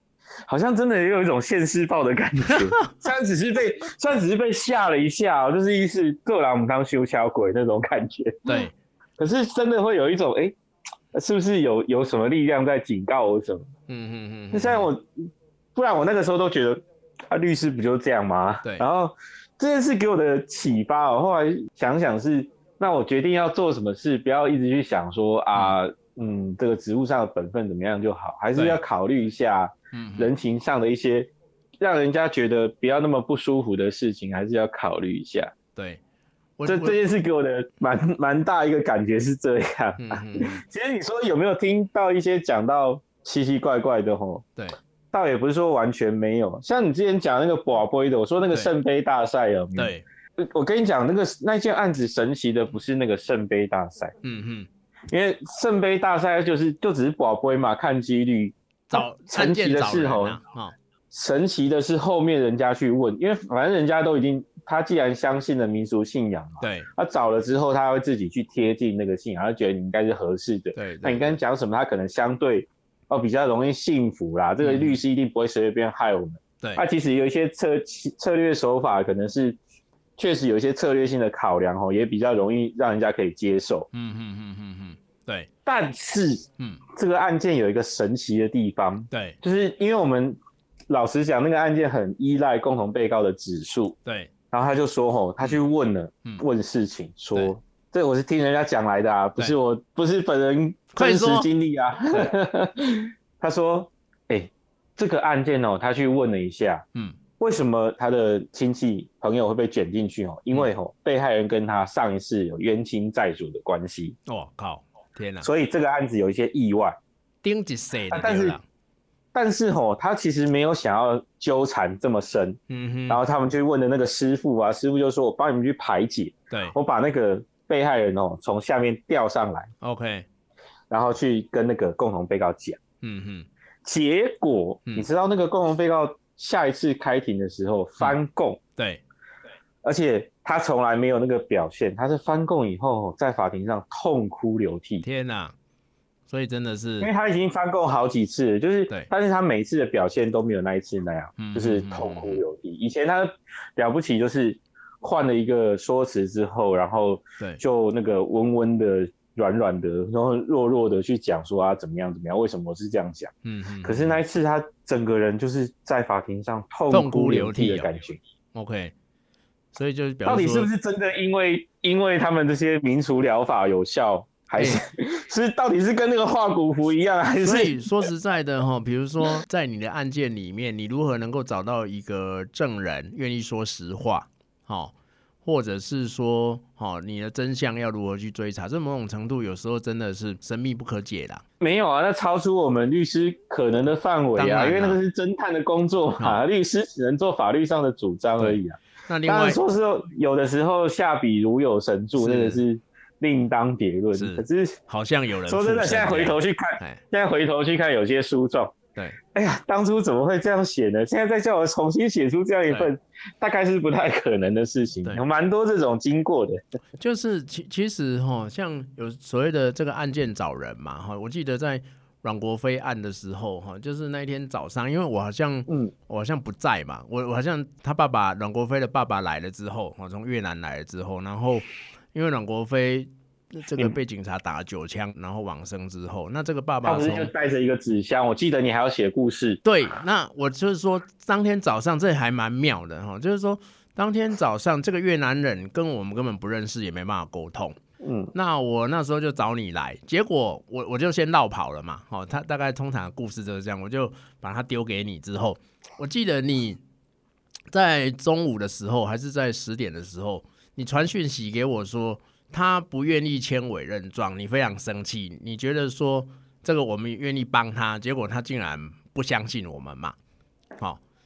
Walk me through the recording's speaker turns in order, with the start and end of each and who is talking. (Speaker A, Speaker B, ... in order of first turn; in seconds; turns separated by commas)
Speaker A: 0.5-8.4, Speaker B: 2.5-3.0, Speaker B: 8.4-8.7, Speaker A: 9.2-10.6, Speaker A: 11.1-13.7, Speaker B: 13.9-14.9, Speaker A: 14.5-15.1, Speaker A: 15.7-35.5, Speaker B: 29.9-30.3, Speaker B: 35.8-36.0, Speaker B: 36.6-37.0, Speaker A: 36.6-44.4, Speaker B: 40.0-40.6, Speaker A: 45.1-54.1, Speaker B: 49.8-50.0, Speaker B: 54.2-54.7, Speaker A: 55.1-60.4, Speaker B: 58.9-60.7, Speaker A: 61.1-79.6, Speaker B: 66.6-66.9, Speaker B: 70.7-71.4, Speaker B: 74.6-75.0, Speaker A: 80.2-83.9, Speaker B: 83.9-85.5, Speaker A: 85.7-90.4, Speaker B: 89.1-89.4, Speaker A: 90.9-94.0, Speaker B: 94.0-94.3, Speaker A: 94.5-106.8, Speaker B: 100.9-101.5, Speaker A: 107.4-114.2, Speaker B: 114.3-115.5, Speaker A: 115.4-117.0, Speaker B: 117.4-118.6, Speaker A: 118.1-118.6, Speaker A: 119.3-129.7, Speaker B: 122.7-123.2, Speaker B: 126.5-126.8, Speaker B: 129.8-130.3, Speaker A: 130.9-132.8, Speaker B: 133.0-133.5, Speaker A: 133.8-138.6, Speaker B: 138.8-139.0, Speaker A: 139.8-145.0, Speaker B: 145.0-145.5, Speaker B: 146.3-147.1, Speaker A: 147.0-163.3, Speaker B: 151.4-152.4, Speaker B: 163.4-164.2, Speaker A: 163.8-168.2, Speaker B: 166.9-167.9, Speaker B: 168.5-168.9, Speaker B: 169.7-170.7, Speaker A: 170.2-178.0, Speaker B: 174.6-174.8, Speaker B: 177.4-191.4, Speaker A: 191.6-204.8, Speaker B: 194.3-195.0, Speaker B: 198.4-199.6, Speaker B: 202.2-202.6, Speaker B: 204.1-207.0, Speaker A: 205.5-208.8, Speaker A: 209.3-216.6, Speaker B: 217.0-237.3, Speaker A: 236.8-239.6, Speaker B: 239.6-247.8, Speaker A: 248.0-248.3, Speaker B: 248.3-256.8, Speaker B: 257.7-270.1